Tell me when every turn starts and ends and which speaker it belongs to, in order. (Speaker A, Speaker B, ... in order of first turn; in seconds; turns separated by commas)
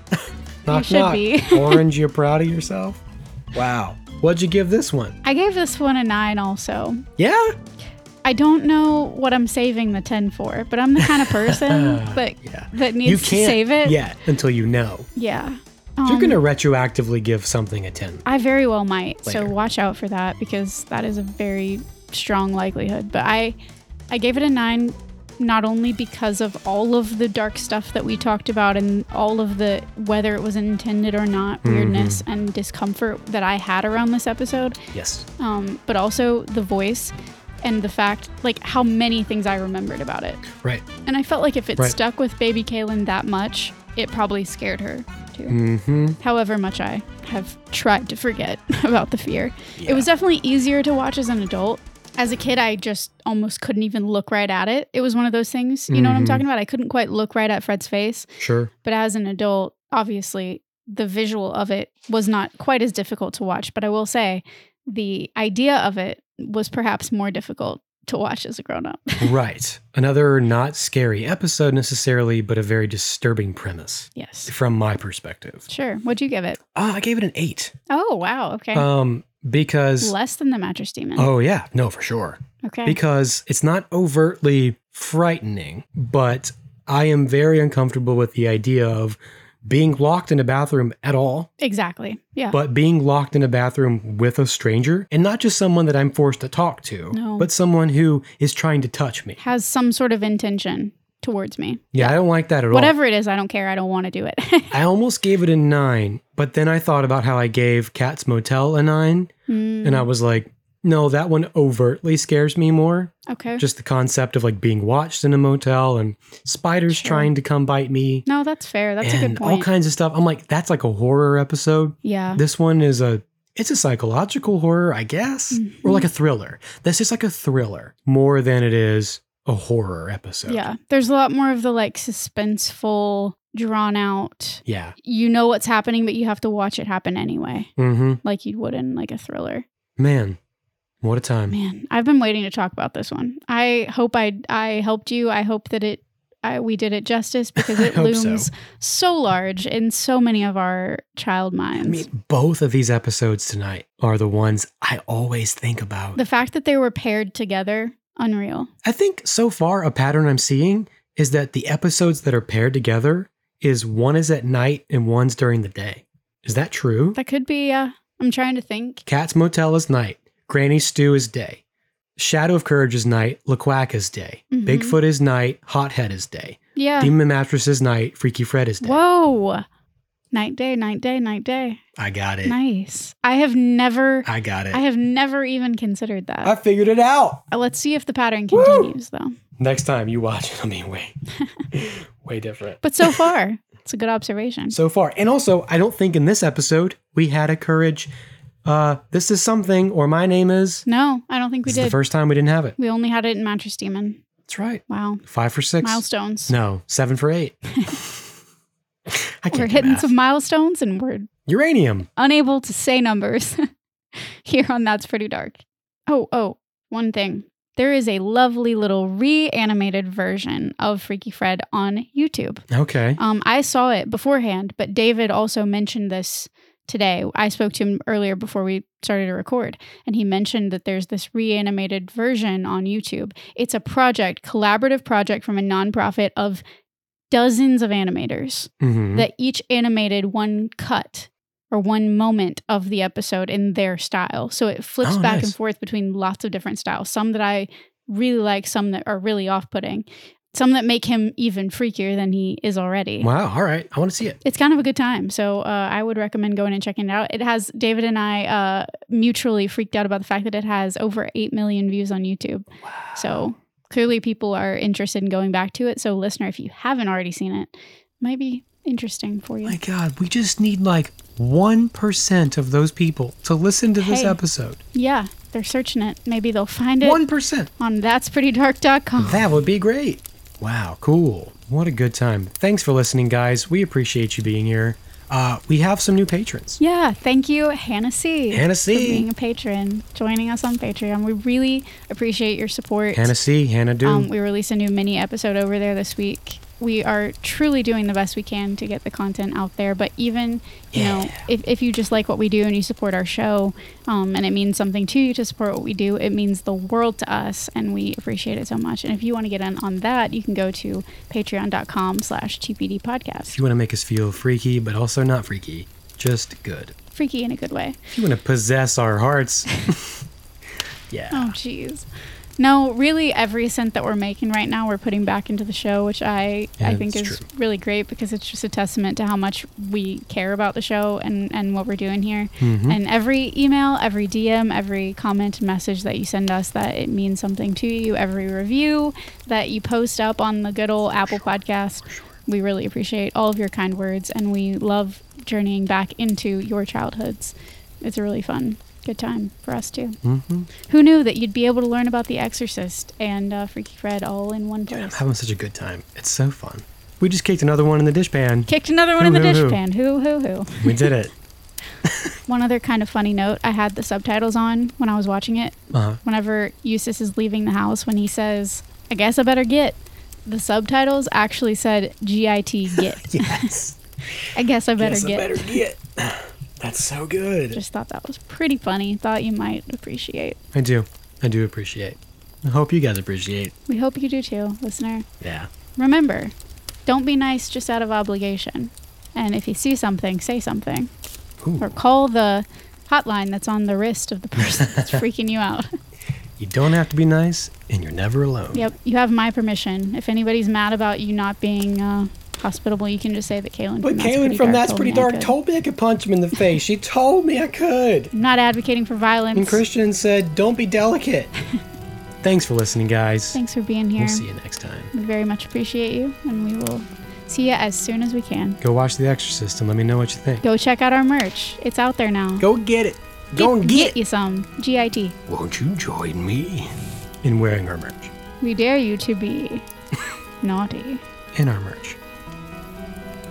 Speaker A: 0.1-3.0, Speaker B: 0.7-1.9, Speaker A: 3.5-5.2, Speaker B: 5.2-7.0, Speaker A: 7.2-7.6, Speaker B: 8.2-14.0, Speaker A: 11.0-15.1, Speaker B: 15.2-16.4, Speaker A: 16.1-18.2, Speaker B: 18.2-23.6, Speaker A: 19.3-19.5, Speaker B: 24.1-34.8, Speaker A: 31.6-32.2, Speaker A: 34.9-35.3, Speaker B: 35.4-40.4, Speaker A: 40.5-40.9, Speaker B: 41.1-45.6, Speaker A: 45.5-46.2, Speaker B: 46.2-58.3, Speaker A: 49.8-50.1, Speaker A: 55.9-56.4, Speaker A: 58.4-58.7, Speaker B: 58.8-69.3, Speaker A: 69.2-75.7, Speaker B: 74.2-74.5, Speaker B: 75.7-76.6, Speaker A: 76.7-77.8, Speaker B: 77.9-78.9, Speaker A: 78.7-80.1, Speaker B: 80.0-81.3, Speaker A: 81.2-91.5, Speaker B: 82.6-83.0, Speaker B: 91.6-92.6, Speaker A: 92.5-99.4, Speaker B: 97.1-97.5, Speaker B: 99.4-102.2, Speaker A: 101.9-103.0, Speaker B: 102.7-104.7, Speaker A: 104.7-109.3, Speaker B: 109.5-110.1, Speaker A: 109.8-118.3, Speaker B: 113.3-113.6, Speaker B: 116.9-117.3, Speaker B: 118.3-119.7, Speaker A: 119.0-130.7, Speaker B: 122.0-122.4, Speaker B: 125.5-126.0, Speaker B: 130.5-137.7, Speaker A: 134.7-135.0, Speaker A: 137.8-138.2, Speaker B: 138.2-139.6, Speaker A: 140.0-140.4, Speaker A: 141.0-141.6, Speaker B: 141.5-152.1, Speaker A: 147.6-148.5, Speaker A: 151.8-156.2, Speaker B: 156.2-158.7, Speaker A: 158.8-167.2, Speaker B: 167.2-169.0, Speaker A: 169.1-171.6, Speaker A: 172.2-179.0, Speaker B: 174.5-175.0, Speaker B: 176.8-177.1, Speaker B: 178.8-179.7, Speaker B: 180.3-181.8, Speaker A: 182.0-182.6, Speaker B: 182.4-186.5, Speaker A: 184.2-184.8, Speaker A: 186.4-187.4, Speaker B: 187.5-189.3, Speaker A: 188.5-188.9, Speaker A: 189.6-191.2, Speaker A: 191.7-193.3, Speaker B: 192.8-194.8, Speaker A: 194.7-198.1, Speaker A: 198.7-200.8, Speaker B: 200.9-202.0, Speaker A: 201.7-202.8, Speaker B: 202.8-204.2, Speaker A: 204.5-208.2, Speaker B: 204.9-205.2, Speaker B: 205.8-206.5, Speaker A: 209.1-210.1, Speaker B: 209.5-211.3, Speaker A: 211.5-212.1, Speaker B: 212.2-213.7, Speaker B: 214.4-222.7, Speaker A: 222.7-223.2, Speaker B: 223.2-236.6, Speaker B: 237.3-253.3, Speaker A: 238.8-239.3, Speaker A: 245.0-245.6, Speaker A: 253.2-254.4, Speaker B: 254.4-269.8, Speaker A: 262.8-263.4, Speaker A: 269.7-274.8, Speaker B: 274.0-274.4, Speaker B: 274.9-277.2, Speaker A: 277.0-277.7, Speaker B: 277.8-279.4, Speaker A: 279.2-286.8, Speaker B: 286.8-293.3, Speaker A: 288.5-289.3, Speaker A: 293.1-294.3, Speaker B: 294.0-313.6, Speaker A: 300.9-301.4, Speaker A: 313.5-316.9, Speaker B: 317.1-318.0, Speaker A: 318.1-320.2, Speaker A: 321.1-321.5, Speaker B: 321.3-322.1, Speaker B: 322.6-350.2, Speaker A: 326.8-327.4, Speaker A: 332.6-333.0, Speaker A: 342.1-342.3, Speaker A: 350.2-350.7, Speaker B: 350.8-355.2, Speaker A: 354.9-359.8, Speaker B: 358.7-361.1, Speaker A: 360.8-361.3, Speaker A: 362.1-362.4, Speaker B: 362.5-373.7, Speaker A: 365.9-366.2, Speaker A: 372.9-374.0, Speaker B: 374.6-375.8, Speaker A: 375.0-377.8, Speaker B: 377.7-380.6, Speaker A: 380.7-383.7, Speaker B: 383.9-385.3, Speaker A: 385.4-385.7, Speaker B: 386.0-386.5, Speaker B: 387.1-391.1, Speaker A: 391.6-391.9, Speaker B: 391.8-395.9, Speaker A: 394.8-395.2, Speaker A: 396.6-398.9, Speaker B: 398.7-405.5, Speaker A: 404.0-408.3, Speaker B: 408.3-409.8, Speaker A: 409.6-411.5, Speaker A: 412.4-413.6, Speaker B: 413.5-414.4, Speaker A: 414.2-415.1, Speaker B: 415.1-418.8, Speaker A: 418.8-420.6, Speaker B: 420.6-422.6, Speaker A: 422.6-424.2, Speaker B: 423.6-425.4, Speaker A: 425.5-428.3, Speaker B: 428.6-429.9, Speaker B: 430.6-431.2, Speaker A: 431.5-432.2